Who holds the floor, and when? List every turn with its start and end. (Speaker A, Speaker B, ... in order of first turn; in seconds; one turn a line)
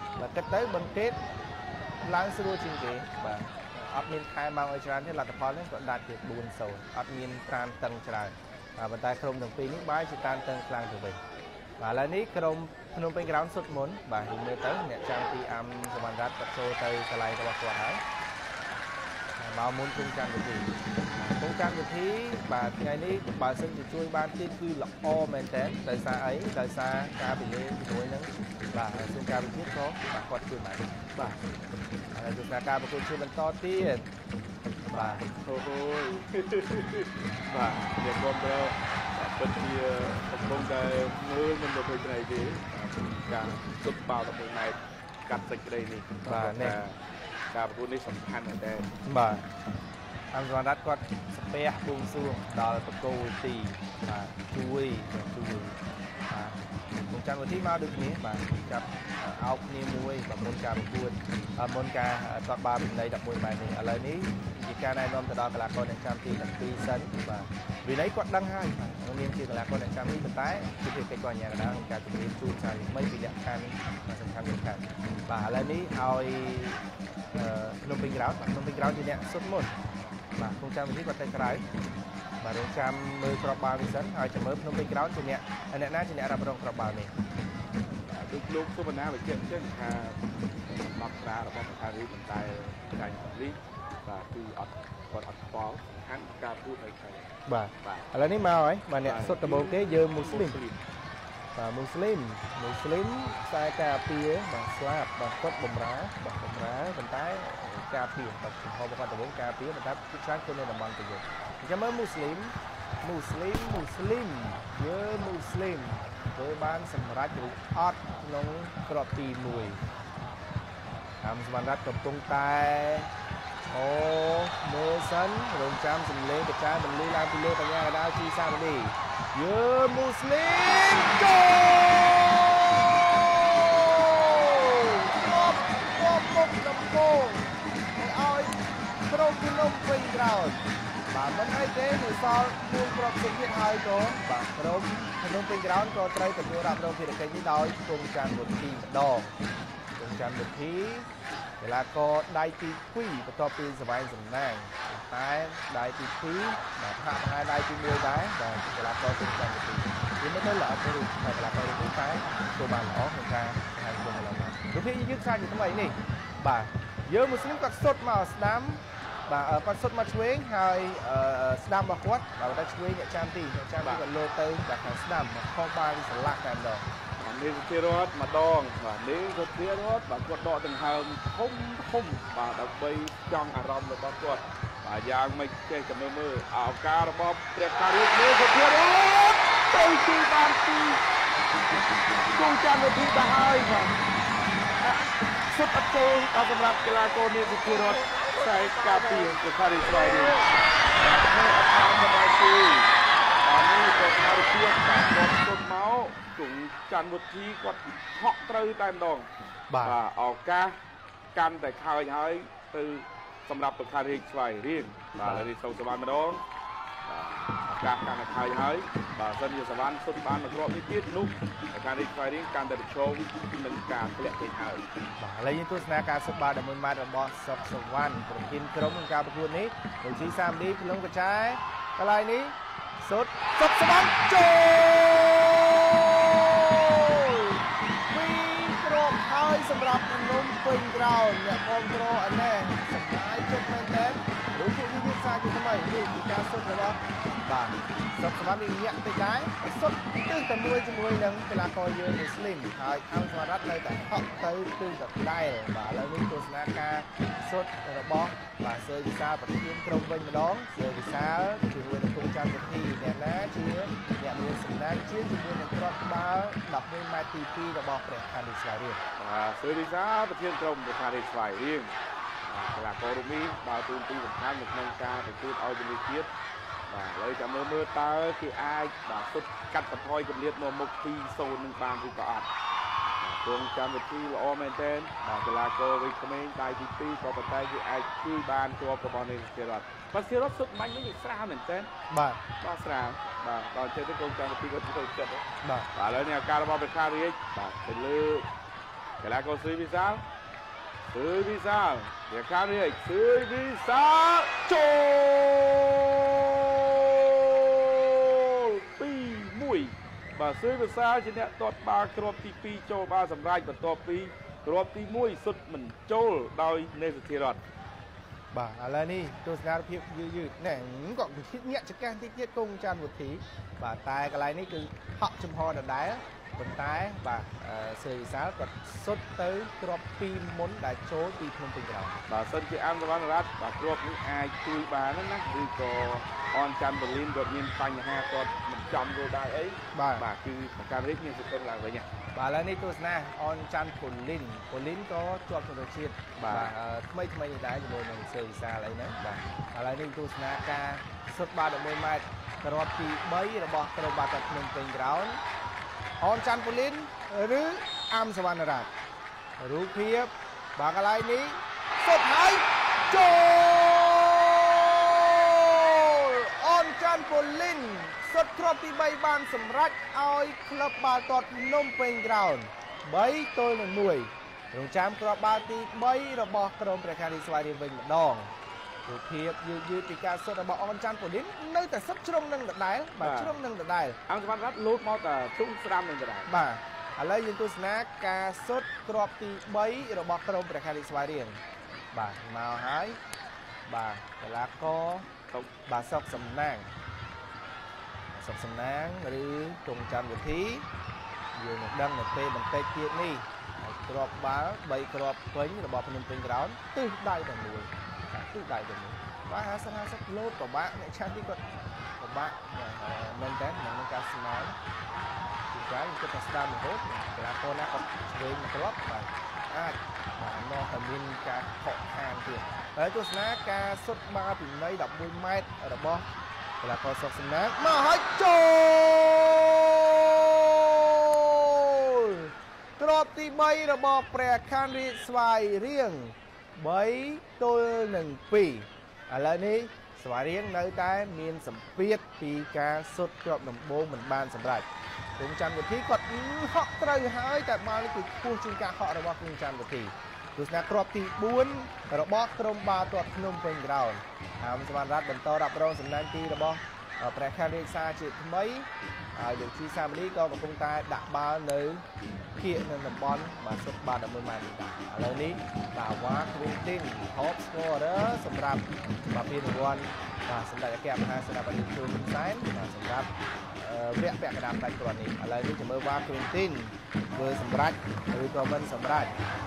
Speaker A: 0.1-1.2
Speaker A: 2.0-11.2
Speaker A: 11.8-18.0
Speaker A: 19.4-30.9
Speaker B: 31.1-31.4
Speaker A: 32.1-34.0
Speaker B: 34.9-47.0
Speaker A: 34.9-35.3
Speaker A: 46.2-46.8
Speaker B: 47.5-48.9
Speaker A: 49.0-49.4
Speaker A: 50.3-55.8
Speaker A: 56.3-79.7
Speaker A: 80.3-81.6
Speaker A: 82.4-87.1
Speaker B: 88.1-98.1
Speaker A: 97.5-100.6
Speaker B: 99.0-100.8
Speaker A: 101.5-119.8
Speaker A: 121.2-123.1
Speaker A: 123.7-149.3
Speaker A: 150.0-151.1
Speaker A: 151.6-176.8
Speaker B: 177.2-191.0
Speaker B: 192.3-193.9
Speaker B: 194.8-202.9
Speaker B: 203.4-209.3
Speaker A: 209.7-210.0
Speaker B: 209.8-210.7
Speaker B: 211.3-216.4
Speaker A: 215.2-215.5
Speaker B: 217.1-224.8
Speaker A: 225.2-269.0
Speaker B: 269.2-271.9
Speaker B: 272.4-276.3
Speaker B: 276.9-282.5
Speaker B: 283.2-291.9
Speaker A: 292.1-292.4
Speaker B: 292.6-298.5
Speaker A: 295.6-295.9
Speaker B: 299.2-300.2
Speaker B: 301.1-317.6
Speaker A: 318.5-332.2
Speaker B: 332.3-342.1
Speaker A: 339.9-340.2
Speaker A: 342.3-355.4
Speaker B: 346.4-346.7
Speaker A: 356.2-358.9
Speaker A: 359.6-378.5
Speaker A: 379.1-384.2
Speaker B: 383.2-383.6
Speaker B: 384.3-386.5
Speaker A: 386.5-391.6
Speaker A: 392.1-393.2
Speaker A: 393.9-395.3
Speaker A: 395.9-396.9
Speaker A: 398.3-400.9
Speaker A: 401.5-411.6
Speaker A: 412.2-414.7
Speaker A: 415.7-426.3
Speaker A: 426.8-462.0
Speaker A: 462.6-479.4